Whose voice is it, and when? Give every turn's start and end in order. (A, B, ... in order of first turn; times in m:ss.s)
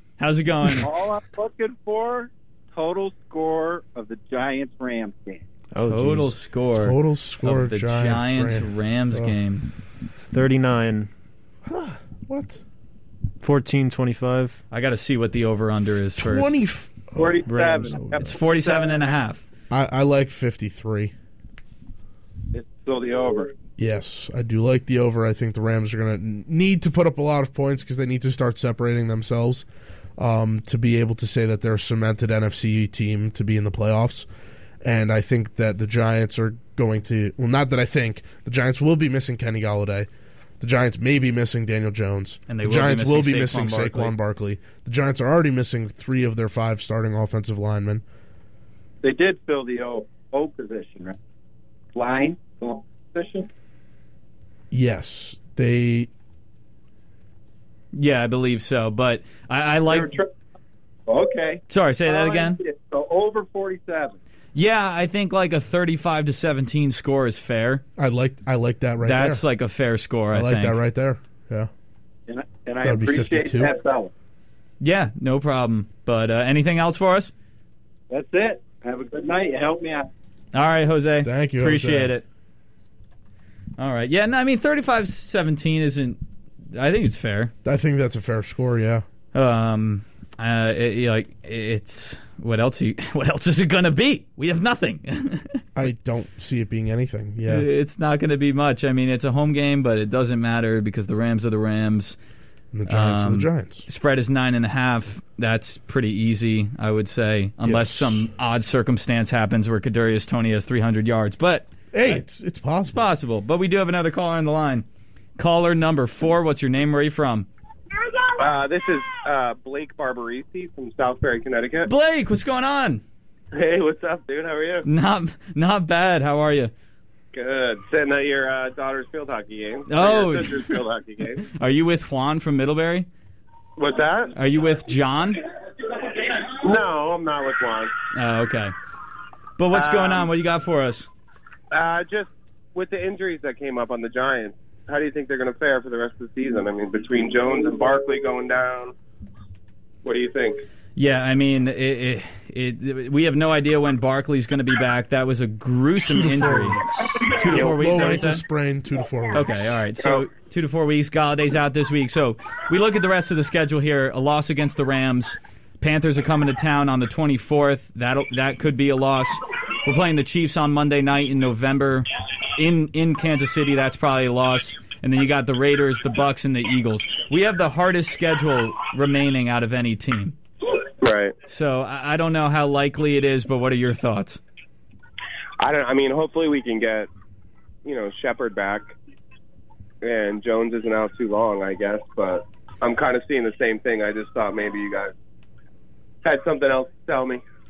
0:00.2-0:00.9 A
0:00.8-0:05.4 B
0:05.7-0:06.4 C
0:05.8-0:09.7 A
0:06.8-0:09.3 D
0:10.3-0:11.1 C
0:11.7-0:12.6 D
0:13.4-0:14.6 C
0:14.7-0:16.5 A
0:16.2-0:18.3 D
0:17.2-0:19.0 B
0:17.5-0:18.0 C
0:18.2-0:19.4 A
0:19.7-0:21.1 D
0:22.5-0:23.5 B
0:23.8-0:34.3 D
0:34.8-0:40.1 D
0:40.6-0:48.0 D
0:42.5-0:44.1 A
0:49.0-0:51.2 B
0:52.0-0:53.5 B
0:54.7-0:56.1 D
0:57.9-1:00.2 A
0:59.9-1:00.3 B
1:01.1-1:04.2 B
1:01.7-1:02.6 A
1:04.6-1:07.8 A
1:08.0-1:09.4 D
1:09.0-1:10.8 A
1:10.3-1:11.7 D
1:12.3-1:14.1 B
1:12.8-1:13.7 D
1:14.8-1:17.3 A
1:18.1-1:20.1 B
1:20.5-1:22.2 A
1:21.2-1:22.1 D
1:23.8-1:26.2 A
1:26.7-1:27.5 A
1:27.6-1:29.0 D
1:29.3-1:35.6 A
1:35.8-1:37.7 D
1:37.5-1:42.2 A
1:42.7-1:43.8 D
1:42.9-1:52.2 A
1:47.6-1:48.3 D
1:51.9-1:53.0 D
1:52.9-1:54.8 A
1:55.4-1:57.5 A
1:58.4-2:01.9 E
2:01.8-2:03.0 A
2:03.5-2:04.9 E
2:04.8-2:06.7 A
2:07.3-2:11.5 E
2:09.9-2:10.8 A
2:11.5-2:13.1 A
2:13.8-2:14.3 E
2:14.4-2:15.4 A
2:15.9-2:17.9 E
2:18.1-2:18.7 A
2:19.6-2:21.1 A
2:19.7-2:20.3 E
2:21.7-2:28.9 E
2:30.0-2:30.6 E
2:31.0-2:38.4 A
2:36.0-2:39.8 D
2:39.3-3:00.4 A
3:01.0-3:01.4 E
3:01.5-3:04.4 A
3:05.6-3:07.1 E
3:07.8-3:08.9 E
3:10.0-3:15.1 E
3:16.2-3:17.4 E